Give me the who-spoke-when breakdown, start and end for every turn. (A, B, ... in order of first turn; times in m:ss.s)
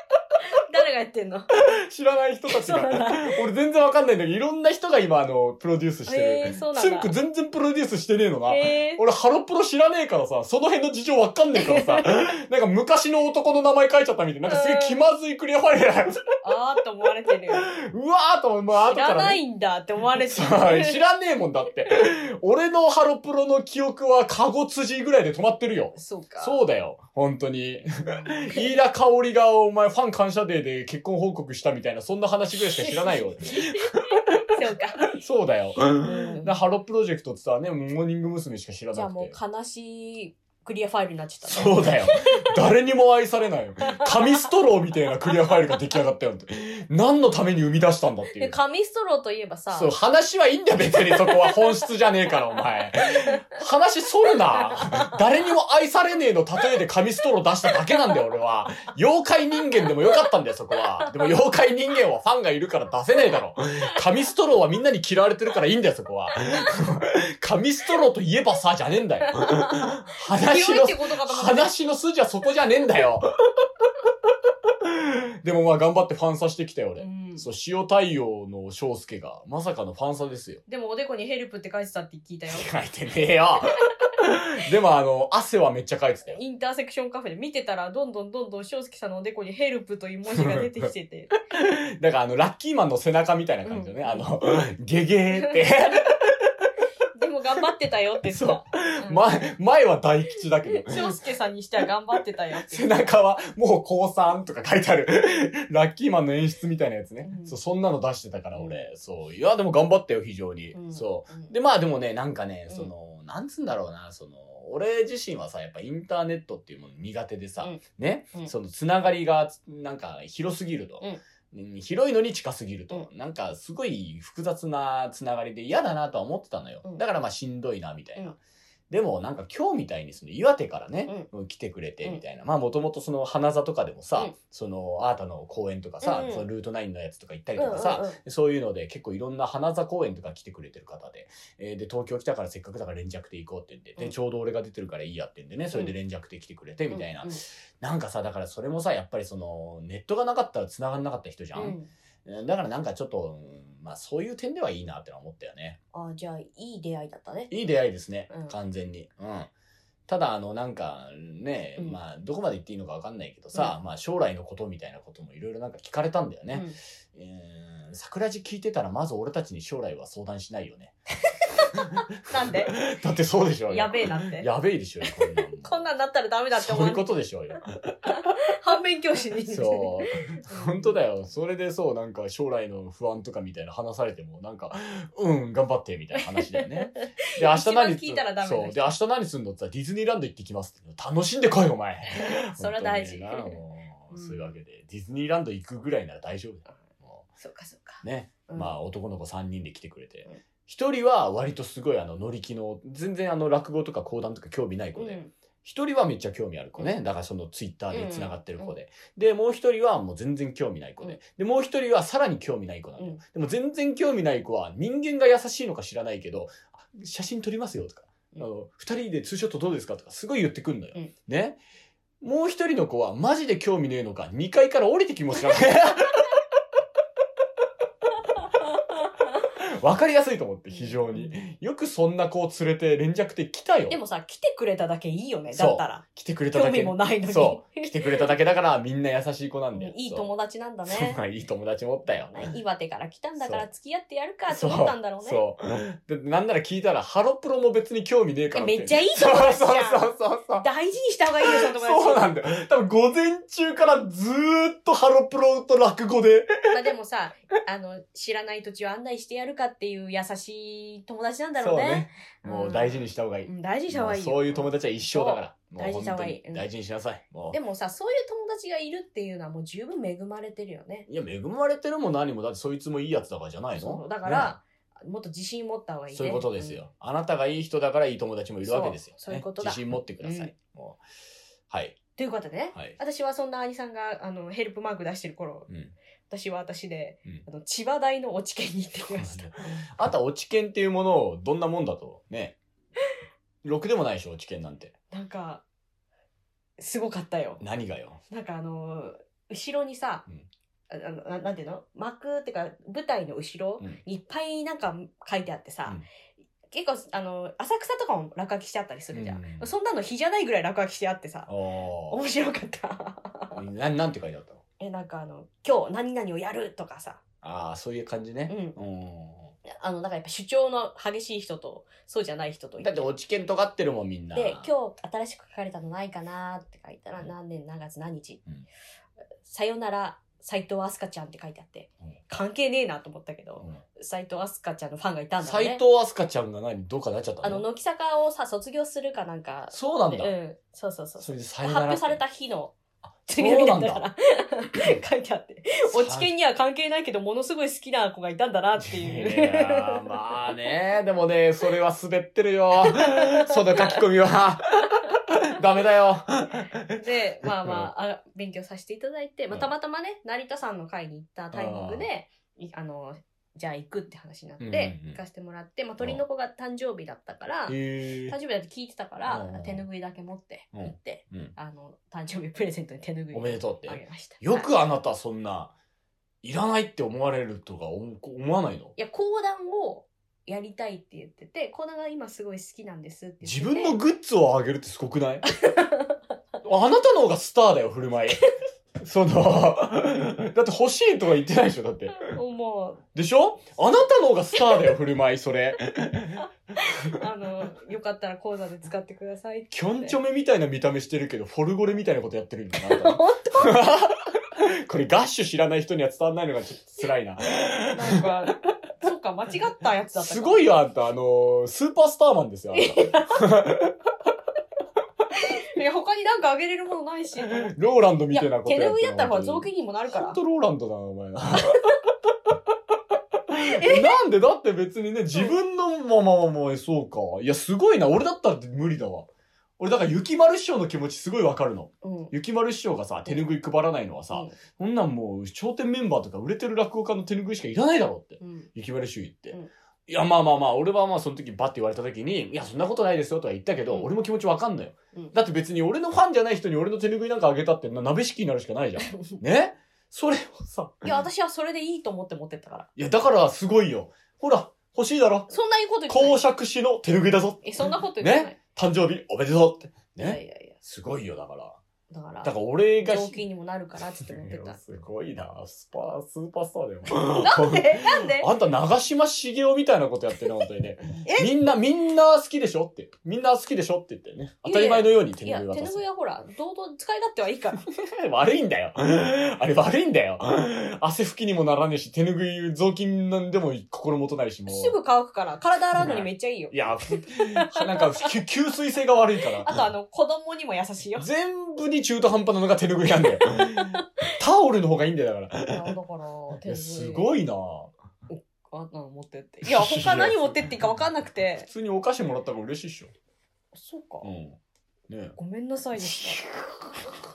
0:00.5-0:01.5 A
0:01.6-0:16.2 B
0:02.5-0:03.4 A
0:06.1-0:07.1 A
0:08.5-0:09.0 A
0:11.6-0:12.1 A
0:14.4-0:15.0 A
0:16.4-0:17.7 A
0:17.6-0:19.4 B
0:18.8-0:21.0 A
0:20.1-0:34.5 B
0:26.0-0:26.6 A
0:28.0-0:28.7 A
0:32.6-0:35.1 A
0:35.1-0:39.4 B
0:36.0-0:36.6 A
0:38.9-0:42.5 A
0:41.4-0:48.6 B
0:43.9-0:44.4 A
0:48.4-0:49.9 A
0:49.7-1:13.3 B
0:51.2-0:51.5 A
0:54.8-0:55.1 A
1:09.4-1:11.7 A
1:14.8-1:20.6 B
1:17.0-1:17.5 A
1:20.7-1:22.7 A
1:22.5-1:26.4 B
1:26.3-1:31.3 A
1:30.3-1:30.9 B
1:31.5-1:36.5 B
1:33.7-1:34.3 A
1:37.2-1:39.2 A
1:38.3-1:41.2 B
1:40.7-1:43.0 A
1:42.6-2:08.4 B
1:47.2-1:47.6 A
1:48.6-1:48.9 A
1:50.7-1:51.5 A
2:08.9-2:35.8 B
2:16.0-2:16.5 A
2:17.6-2:18.2 A
2:26.9-2:27.4 A
2:31.6-2:31.9 A
2:35.9-2:37.5 A
2:37.5-2:39.5 B
2:40.1-2:51.0 B
2:46.5-2:46.8 A
2:51.6-2:52.8 A
2:51.8-2:55.9 B
2:53.7-2:54.5 A
2:55.1-2:57.2 A
2:56.5-2:58.3 B
2:58.1-3:01.0 A
2:59.5-3:17.3 B
3:06.3-3:09.0 A
3:12.1-3:13.6 A
3:14.1-3:14.5 A
3:17.4-3:18.8 A
3:18.0-3:41.6 B
3:25.0-3:25.3 A
3:27.9-3:28.7 A
3:42.2-3:46.3 B
3:48.8-3:49.1 A
3:49.6-3:54.0 B
3:50.7-3:51.4 A
3:53.9-3:58.2 A
3:55.5-4:00.3 B
3:59.7-4:01.2 A
4:00.9-4:02.4 B
4:02.3-4:05.4 A
4:03.4-4:03.7 B
4:04.5-4:10.7 B
4:08.5-4:12.3 A
4:11.4-4:16.8 B
4:16.7-4:26.6 A
4:21.6-4:27.6 B
4:27.5-4:31.1 A
4:31.1-4:34.6 B
4:33.8-4:36.8 A
4:36.1-4:41.0 B
4:38.6-4:40.5 A
4:41.7-4:42.0 B
4:42.2-4:45.7 A
4:46.3-4:49.9 A
4:49.1-4:52.6 B
4:53.6-4:54.9 B
4:55.1-4:55.6 A
4:56.8-4:57.6 A
4:57.6-4:58.2 B
4:58.3-5:00.2 A
5:00.9-5:06.0 A
5:06.7-5:11.5 A
5:09.1-5:09.7 B
5:11.5-5:12.2 B
5:12.1-5:13.6 A
5:13.6-5:14.6 B
5:14.8-5:17.2 A
5:17.4-5:19.6 B
5:18.5-5:18.8 A
5:19.7-5:23.1 A
5:22.8-5:24.7 B
5:24.3-5:28.4 A
5:29.4-5:35.8 A
5:35.4-5:37.6 B
5:37.4-5:42.8 A
5:39.7-5:40.3 B
5:41.2-5:42.2 B
5:43.3-5:50.0 A
5:43.4-5:44.0 B
5:45.9-5:46.3 B
5:48.8-5:56.9 B
5:52.9-5:53.9 A
5:56.9-6:14.7 A
6:01.5-6:02.1 B
6:04.6-6:05.2 B
6:07.7-6:08.4 B
6:09.3-6:09.8 B
6:10.7-6:11.5 B
6:13.3-6:15.7 B
6:16.4-6:19.0 B
6:19.0-6:24.0 A
6:23.4-6:25.5 B
6:25.6-6:26.1 A
6:26.6-6:28.4 B
6:29.0-6:32.3 B
6:32.2-6:33.0 A
6:33.1-6:36.5 B
6:36.8-6:40.2 A
6:39.7-6:48.3 B
6:42.8-6:43.9 A
6:47.9-6:50.7 A
6:50.2-6:54.0 B
6:52.7-6:53.4 A
6:55.4-6:57.7 A
6:57.5-7:01.9 B
6:58.3-7:00.4 A
7:03.5-7:09.3 B
7:03.6-7:04.2 A
7:09.8-7:31.2 B
7:12.0-7:12.3 A
7:14.3-7:14.6 A
7:18.4-7:18.7 A
7:31.0-7:32.9 A
7:33.0-7:35.5 B
7:35.5-7:36.4 A
7:36.1-7:41.8 B
7:37.6-7:38.6 A
7:40.2-7:40.8 A
7:42.1-7:44.8 A
7:42.4-7:43.4 B
7:44.2-7:56.0 B
7:47.1-7:48.5 A
7:51.2-7:51.5 A
7:54.6-7:57.8 A
7:57.9-8:05.0 B
8:04.7-8:08.3 A
8:06.0-8:09.9 B
8:09.6-8:11.3 A
8:11.2-8:16.0 B
8:13.6-8:14.0 A
8:15.7-8:17.3 A
8:16.6-8:17.9 B
8:18.3-8:21.7 A
8:19.6-8:20.8 B
8:21.6-8:23.1 B
8:23.7-8:24.3 A
8:24.2-8:24.6 B
8:25.1-8:25.4 B
8:25.4-8:26.4 A
8:26.0-8:27.0 B